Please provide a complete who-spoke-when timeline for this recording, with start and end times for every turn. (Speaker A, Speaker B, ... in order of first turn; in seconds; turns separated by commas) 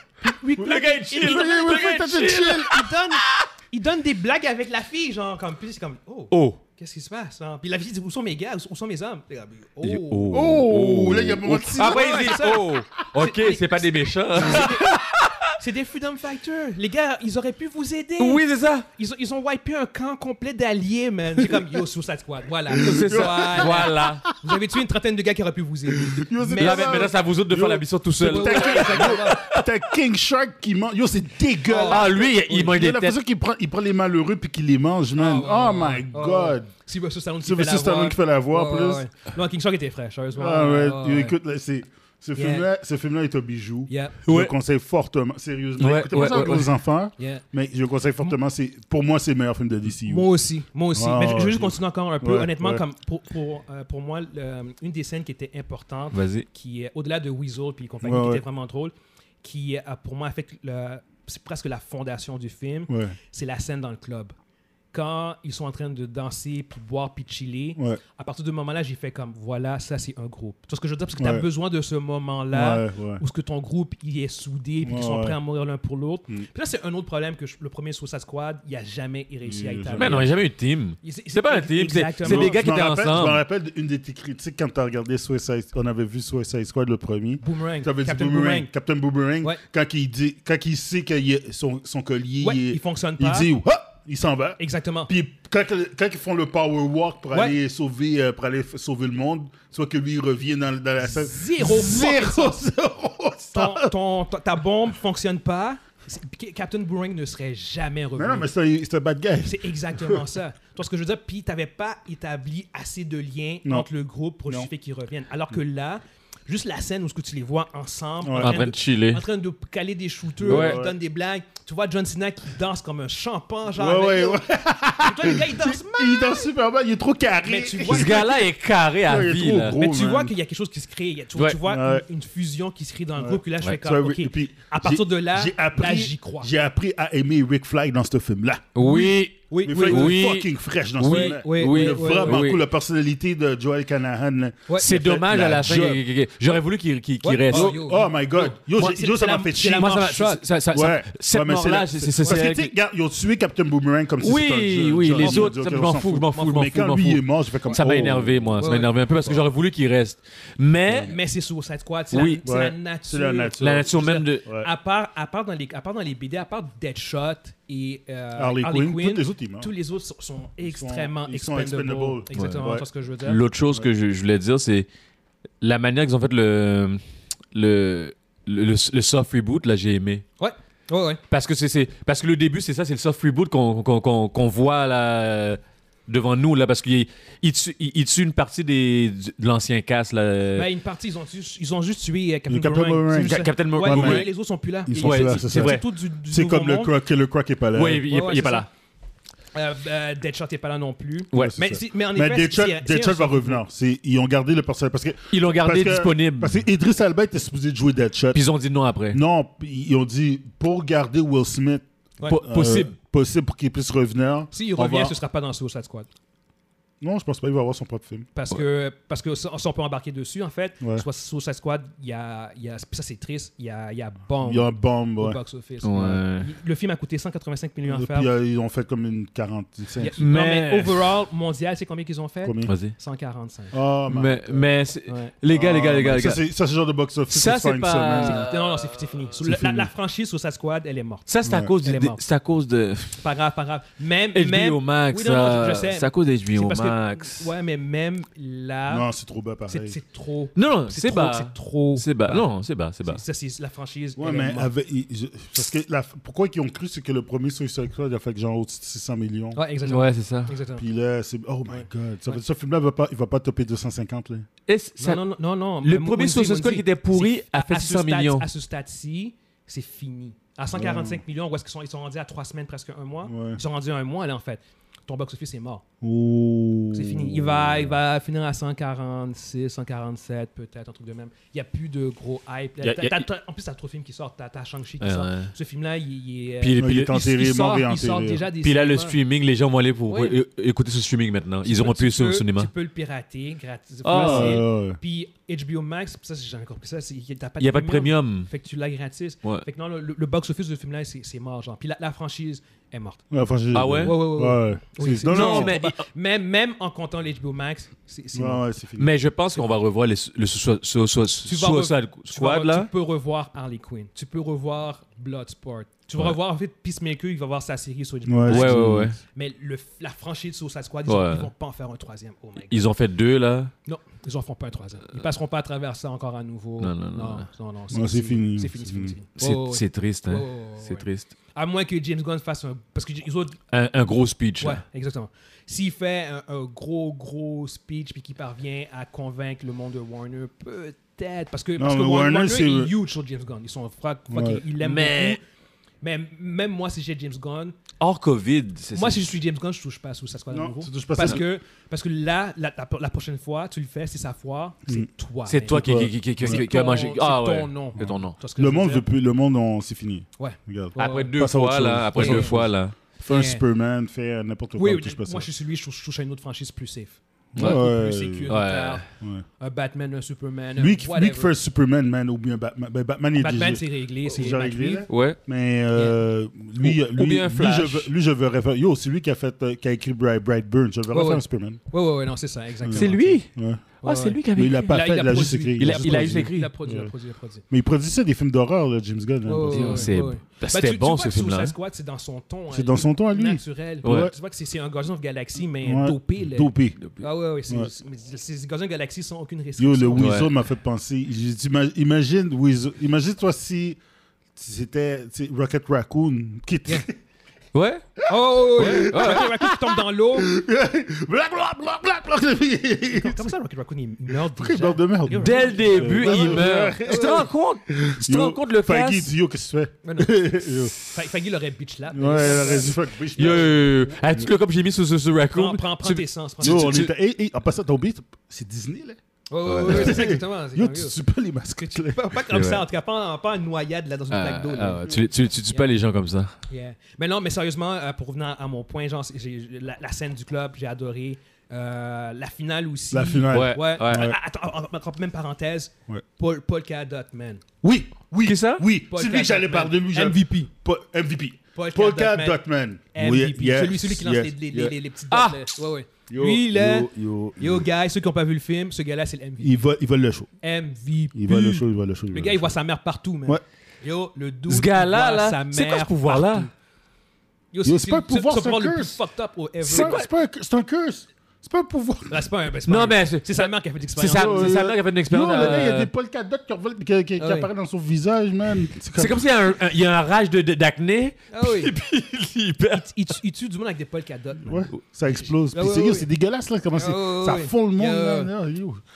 Speaker A: 0.2-10.5, Speaker B: 0.6-2.8, Speaker C: 1.1-2.8, Speaker B: 6.3-6.6, Speaker B: 9.8-15.5, Speaker C: 10.3-12.4, Speaker A: 11.5-15.0, Speaker A: 15.6-18.4, Speaker B: 18.2-18.9, Speaker A: 18.9-27.1, Speaker C: 22.7-24.3, Speaker B: 22.8-24.2, Speaker C: 26.0-36.7, Speaker B: 26.6-29.7, Speaker A: 28.2-29.4, Speaker A: 31.6-32.2, Speaker B: 31.9-33.2, Speaker A: 35.1-41.3, Speaker C: 37.4-39.0, Speaker C: 40.3-50.3, Speaker A: 42.3-42.7, Speaker A: 43.9-44.2, Speaker B: 44.3-44.5, Speaker B: 45.8-46.7, Speaker A: 47.2-47.4, Speaker A: 50.1-64.3, Speaker C: 50.9-52.8, Speaker B: 56.1-56.5, Speaker C: 58.0-58.4, Speaker C: 62.9-63.1, Speaker A: 64.9-80.3, Speaker C: 71.2-71.4, Speaker C: 72.5-73.2, Speaker C: 74.8-75.4, Speaker C: 79.4-80.3, Speaker B: 80.0-83.4, Speaker A: 81.0-82.7, Speaker C: 82.2-103.9, Speaker A: 87.4-88.7, Speaker A: 92.4-93.5, Speaker A: 94.6-95.1, Speaker A: 97.3-97.6, Speaker A: 101.0-102.6, Speaker A: 103.5-108.5, Speaker C: 108.2-110.3, Speaker A: 109.4-124.5, Speaker C: 118.2-118.6, Speaker B: 118.4-119.2, Speaker C: 120.4-121.0, Speaker B: 120.5-120.8, Speaker C: 123.7-128.4, Speaker A: 125.0-126.5, Speaker A: 127.4-128.4, Speaker B: 127.9-129.8, Speaker C: 129.0-130.3, Speaker A: 129.8-136.5, Speaker C: 131.6-132.1, Speaker C: 133.2-138.9, Speaker B: 138.8-142.6, Speaker A: 138.8-140.2, Speaker C: 139.6-146.0, Speaker A: 141.0-142.4, Speaker A: 144.7-144.9, Speaker B: 144.8-147.8, Speaker A: 147.2-150.4, Speaker C: 147.5-150.0, Speaker B: 149.7-152.7, Speaker C: 150.7-158.6, Speaker B: 154.2-161.2, Speaker A: 155.1-155.6, Speaker A: 156.3-156.7, Speaker A: 158.6-158.9, Speaker C: 160.9-161.1, Speaker A: 161.0-173.4, Speaker B: 162.1-162.4, Speaker C: 162.4-163.9, Speaker B: 163.6-164.4, Speaker C: 168.3-169.7, Speaker C: 170.6-172.8, Speaker B: 172.3-172.7, Speaker B: 173.2-174.9, Speaker B: 175.6-177.0, Speaker B: 177.5-180.2, Speaker A: 180.4-181.2, Speaker B: 181.3-190.7, Speaker A: 190.5-196.9, Speaker C: 192.5-194.3, Speaker B: 193.2-194.3, Speaker C: 194.8-198.0, Speaker B: 194.9-195.8, Speaker B: 197.7-198.7, Speaker A: 198.1-198.7, Speaker A: 199.5-203.6, Speaker C: 201.3-208.4, Speaker B: 205.3-206.6, Speaker B: 208.3-209.2, Speaker C: 209.1-211.8, Speaker A: 212.2-212.4, Speaker B: 212.2-212.9, Speaker C: 212.3-215.1, Speaker A: 214.5-216.1, Speaker C: 217.0-218.3, Speaker A: 218.3-228.3, Speaker C: 224.4-225.4, Speaker B: 225.8-226.5, Speaker C: 227.8-230.2, Speaker A: 230.0-233.8, Speaker B: 230.2-231.1, Speaker C: 232.4-232.7, Speaker B: 232.7-232.9, Speaker C: 233.7-234.7, Speaker B: 234.1-236.4, Speaker A: 235.1-235.3, Speaker C: 235.5-238.4, Speaker B: 237.3-239.3, Speaker A: 238.2-241.3, Speaker C: 239.4-239.9, Speaker B: 241.3-243.2, Speaker C: 241.4-241.7, Speaker A: 241.8-242.2, Speaker A: 243.2-249.1, Speaker B: 244.3-247.5, Speaker C: 248.9-250.0, Speaker A: 249.7-252.5, Speaker B: 250.6-253.2, Speaker A: 253.0-254.7, Speaker C: 254.2-259.6, Speaker A: 259.5-260.8, Speaker B: 259.8-260.5, Speaker C: 260.8-264.4, Speaker A: 261.7-262.4, Speaker B: 264.7-265.2, Speaker A: 265.0-275.8, Speaker B: 265.8-268.4, Speaker C: 270.7-271.2, Speaker C: 273.3-273.6, Speaker C: 276.0-277.9, Speaker A: 276.9-289.2, Speaker B: 282.8-283.3, Speaker B: 285.0-285.5, Speaker B: 286.6-287.2, Speaker C: 286.8-288.5, Speaker B: 288.6-292.7, Speaker A: 290.1-290.4, Speaker A: 291.6-303.2, Speaker B: 294.0-294.6, Speaker C: 294.1-295.0, Speaker B: 297.6-298.5, Speaker C: 303.3-305.8, Speaker B: 303.7-304.2, Speaker A: 304.0-308.6, Speaker B: 305.3-306.0, Speaker C: 308.3-309.1, Speaker B: 309.0-312.9, Speaker A: 311.4-322.9, Speaker C: 318.2-319.1, Speaker B: 318.5-319.2, Speaker B: 321.1-321.5, Speaker B: 322.7-323.7, Speaker A: 323.9-333.6, Speaker B: 326.8-327.4, Speaker C: 327.9-329.1, Speaker B: 329.4-331.3, Speaker B: 333.7-334.8, Speaker A: 334.6-345.4, Speaker C: 341.8-342.9, Speaker C: 344.3-344.6, Speaker B: 344.8-345.4, Speaker A: 346.0-347.7, Speaker B: 348.0-349.4, Speaker A: 348.9-359.1, Speaker C: 350.5-351.4, Speaker B: 355.4-358.4, Speaker C: 355.7-356.6, Speaker C: 358.0-365.5, Speaker A: 360.4-361.3, Speaker B: 361.0-362.9, Speaker A: 362.1-362.6, Speaker A: 363.2-363.6, Speaker A: 364.8-369.1, Speaker C: 367.5-368.6, Speaker B: 367.6-367.8, Speaker B: 368.5-369.1, Speaker C: 369.2-369.4, Speaker A: 369.6-371.5, Speaker C: 370.8-381.8, Speaker A: 373.4-375.1, Speaker B: 375.1-375.4, Speaker B: 376.8-378.1, Speaker A: 381.1-383.4, Speaker C: 382.8-383.8, Speaker B: 382.9-383.5, Speaker B: 384.0-386.7, Speaker A: 384.0-387.6, Speaker C: 384.5-387.1, Speaker C: 387.7-390.1, Speaker A: 389.4-400.3, Speaker B: 389.7-391.7, Speaker C: 392.7-394.3, Speaker B: 394.0-394.3, Speaker C: 395.8-397.0, Speaker C: 399.8-404.0, Speaker B: 400.1-400.5, Speaker C: 404.6-407.1, Speaker B: 407.7-408.2, Speaker A: 408.3-410.5, Speaker C: 408.4-413.5, Speaker B: 408.7-409.5, Speaker A: 413.1-417.5, Speaker C: 414.3-420.9, Speaker B: 415.4-419.3, Speaker A: 420.0-422.9, Speaker C: 422.1-424.5, Speaker B: 423.4-427.1, Speaker A: 425.5-427.1, Speaker C: 426.6-429.2, Speaker A: 429.5-431.2, Speaker B: 429.6-430.2, Speaker C: 429.8-432.4, Speaker A: 431.8-435.0, Speaker B: 432.5-432.8, Speaker B: 434.3-436.5, Speaker A: 436.7-447.6, Speaker C: 443.1-444.4, Speaker B: 443.5-444.3, Speaker C: 447.8-454.9, Speaker B: 448.4-448.9, Speaker A: 449.1-450.7, Speaker A: 451.7-452.6, Speaker A: 453.1-459.8, Speaker B: 455.3-455.6, Speaker C: 456.3-457.9, Speaker C: 459.6-460.5, Speaker A: 460.6-466.7, Speaker C: 461.3-462.7, Speaker B: 464.7-466.7, Speaker A: 467.7-470.2, Speaker C: 467.8-469.2, Speaker C: 469.8-472.4, Speaker B: 469.9-470.3, Speaker A: 472.3-474.8, Speaker B: 472.9-476.1, Speaker C: 474.3-479.4, Speaker A: 477.4-477.7, Speaker B: 479.1-483.1, Speaker A: 481.5-481.9, Speaker A: 482.9-486.3, Speaker C: 484.6-489.0, Speaker A: 486.9-488.5